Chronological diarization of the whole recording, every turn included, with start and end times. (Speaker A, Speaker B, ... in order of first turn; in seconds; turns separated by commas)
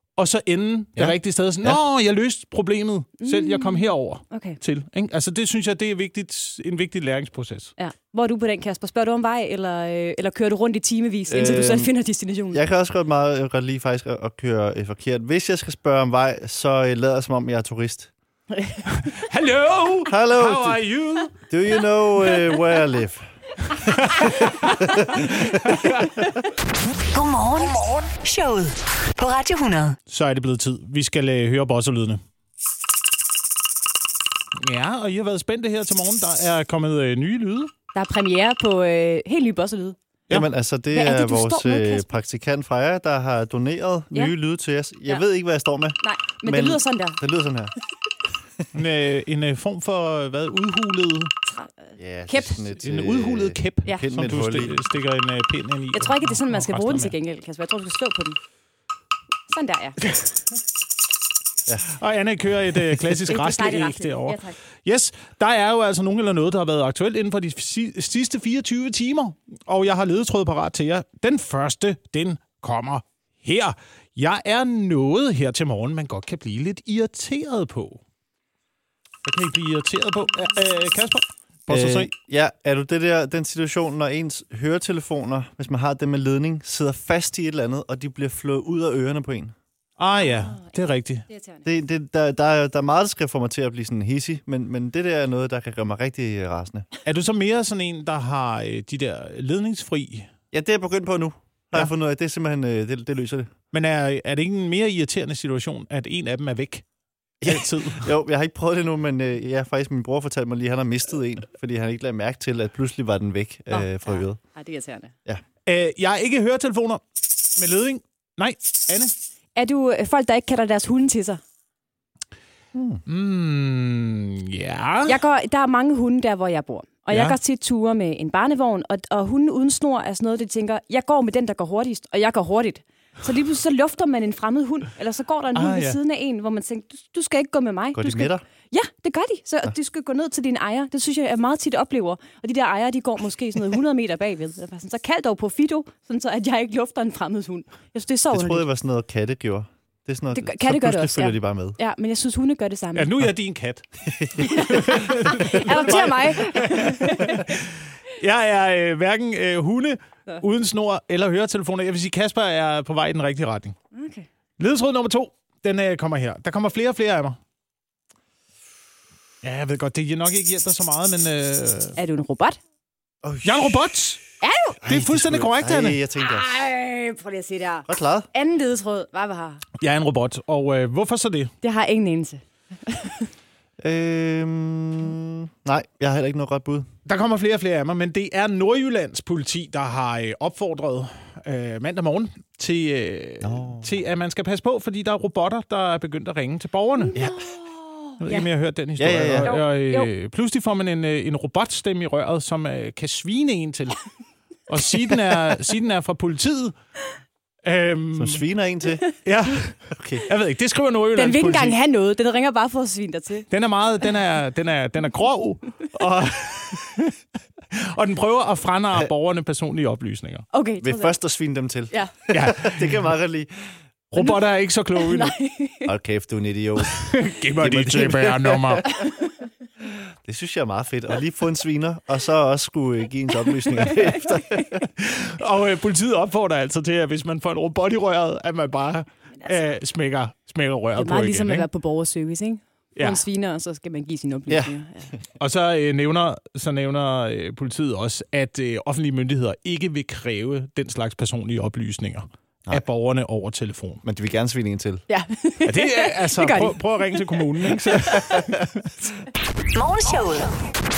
Speaker A: 0.2-7.7, Speaker B: 0.9-1.8, Speaker C: 3.2-4.6, Speaker C: 7.8-12.6, Speaker B: 11.3-11.9, Speaker B: 12.5-18.1, Speaker A: 18.9-21.4, Speaker B: 20.1-20.8, Speaker B: 21.5-25.8, Speaker A: 23.9-24.8, Speaker A: 25.4-26.1, Speaker D: 27.1-30.0, Speaker A: 30.1-32.2, Speaker A: 34.6-37.7, Speaker C: 37.9-40.0, Speaker B: 40.3-47.7, Speaker C: 40.9-42.1, Speaker C: 46.0-47.2, Speaker A: 48.7-51.3, Speaker C: 51.5-52.6, Speaker B: 52.0-54.8, Speaker A: 52.8-57.1, Speaker C: 55.9-58.4, Speaker C: 59.5-60.0, Speaker A: 61.9-78.0, Speaker C: 63.3-64.5, Speaker A: 79.2-82.1, Speaker B: 81.7-89.5, Speaker A: 90.0-91.2, Speaker C: 90.2-90.7, Speaker C: 91.3-91.7, Speaker B: 91.6-96.9, Speaker A: 97.0-100.3, Speaker B: 100.5-103.5, Speaker A: 103.7-106.8, Speaker B: 107.4-114.4, Speaker A: 107.4-108.1, Speaker C: 113.7-115.1, Speaker A: 115.7-119.1, Speaker C: 119.5-121.4, Speaker B: 122.7-123.0, Speaker A: 123.0-125.2, Speaker C: 125.0-148.6, Speaker A: 127.1-127.4, Speaker A: 135.5-136.0, Speaker B: 137.9-138.4, Speaker B: 148.3-151.8, Speaker C: 150.3-153.1, Speaker A: 152.9-163.8, Speaker B: 154.1-154.5, Speaker C: 154.4-157.5, Speaker C: 163.9-164.3, Speaker A: 164.6-167.4, Speaker A: 169.4-172.0, Speaker C: 171.9-172.6, Speaker B: 173.2-173.7, Speaker A: 173.4-174.2, Speaker C: 174.4-174.8, Speaker B: 174.8-176.5, Speaker A: 174.8-176.0, Speaker C: 176.2-179.6, Speaker B: 177.9-178.3, Speaker A: 179.8-181.5, Speaker C: 181.6-183.3, Speaker B: 183.8-186.9, Speaker A: 187.1-197.1, Speaker B: 193.4-193.9, Speaker C: 197.0-198.4, Speaker A: 198.2-204.1, Speaker B: 199.0-199.5, Speaker C: 199.4-200.1, Speaker A: 204.7-206.7, Speaker A: 207.6-208.4, Speaker B: 208.1-209.1, Speaker A: 209.2-211.8, Speaker B: 209.9-210.2, Speaker C: 211.2-213.5, Speaker A: 213.5-217.2, Speaker A: 217.7-220.5, Speaker C: 220.5-221.1, Speaker B: 220.8-223.5, Speaker A: 222.3-223.0, Speaker A: 224.1-225.3, Speaker C: 225.0-225.9, Speaker B: 225.8-228.8, Speaker A: 226.9-228.9, Speaker C: 228.9-229.3, Speaker B: 230.2-234.9, Speaker A: 234.8-241.7, Speaker C: 240.9-245.1, Speaker A: 243.0-243.2, Speaker A: 245.4-254.0, Speaker B: 254.0-255.0, Speaker C: 255.1-257.8, Speaker A: 255.6-258.9, Speaker D: 259.7-260.6